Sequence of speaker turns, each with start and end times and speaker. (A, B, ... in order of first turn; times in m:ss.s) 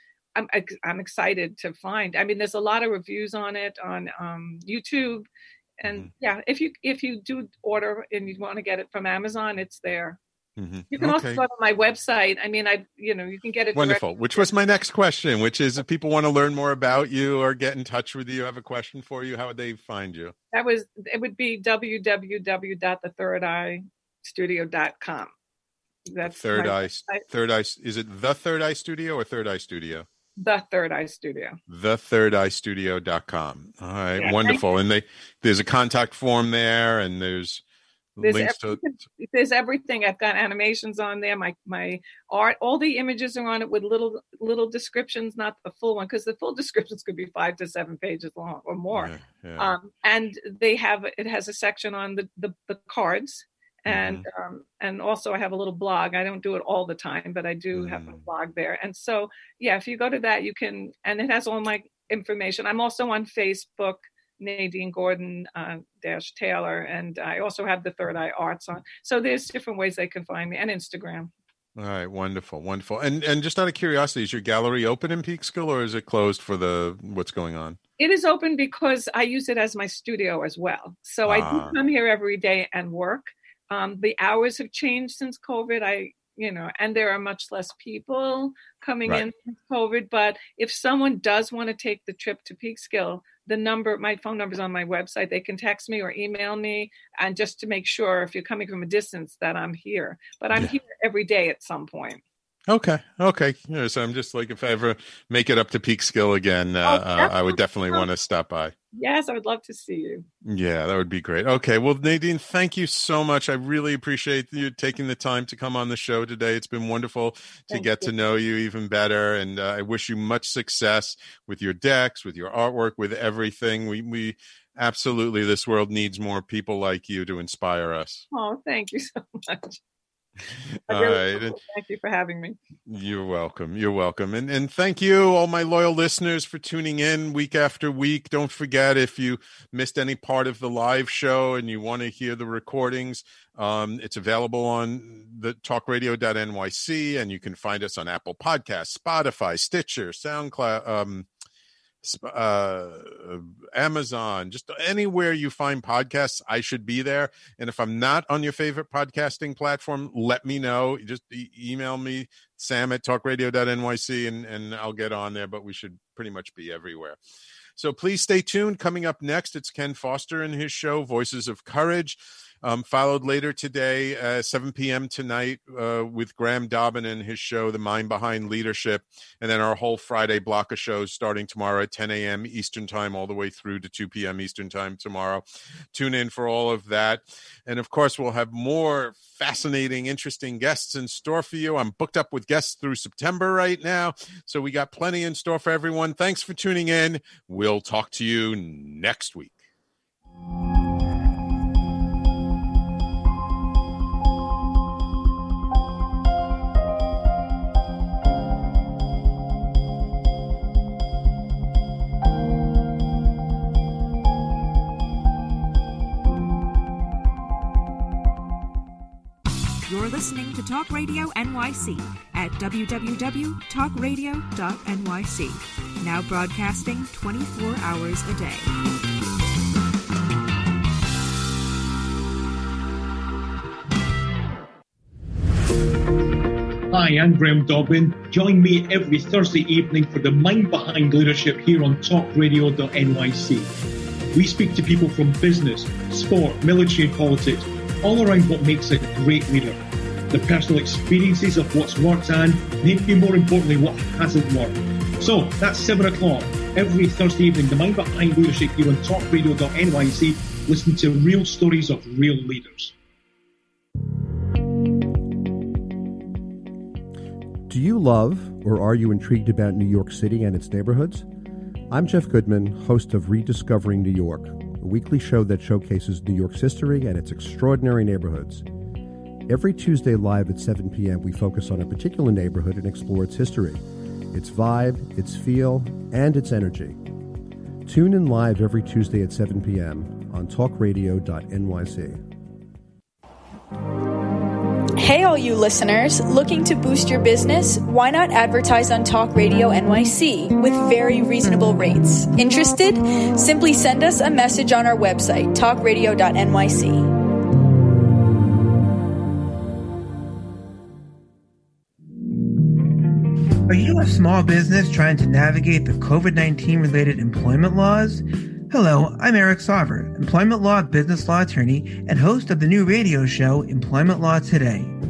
0:00.4-0:05.3 A
0:05.8-0:10.2 A
0:10.6-0:11.4 B
0:10.9-0:14.5 A
0:13.8-0:20.3 B
0:20.5-0:25.3 A
0:26.1-0:27.2 A
0:26.2-0:30.1 B
0:30.4-0:31.6 A
0:31.7-0:37.6 B
0:34.2-0:34.6 A
0:38.2-0:38.8 B
0:38.2-1:11.3 A
0:48.9-0:49.7 B
0:53.9-0:54.3 B
0:57.7-0:58.2 B
1:11.8-1:17.8 B
1:18.0-1:42.2 A
1:21.2-1:21.8 B
1:42.7-1:48.7 B
1:46.8-1:48.1 A
1:48.9-1:50.3 A
1:50.4-2:08.3 B
1:57.7-1:58.1 A
2:08.3-2:09.8 A
2:10.7-2:11.6 B
2:10.9-2:12.6 A
2:12.9-2:31.3 B
2:32.0-2:47.2 B
2:47.8-3:19.6 B
3:39.9-3:48.7 C
3:56.9-4:03.7 D
4:04.3-4:23.0 D
4:27.7-4:31.3 E
4:31.9-4:38.7 E
4:39.5-4:47.0 E
4:47.8-4:52.2 E
4:55.0-5:07.1 F
5:13.7-5:24.9 G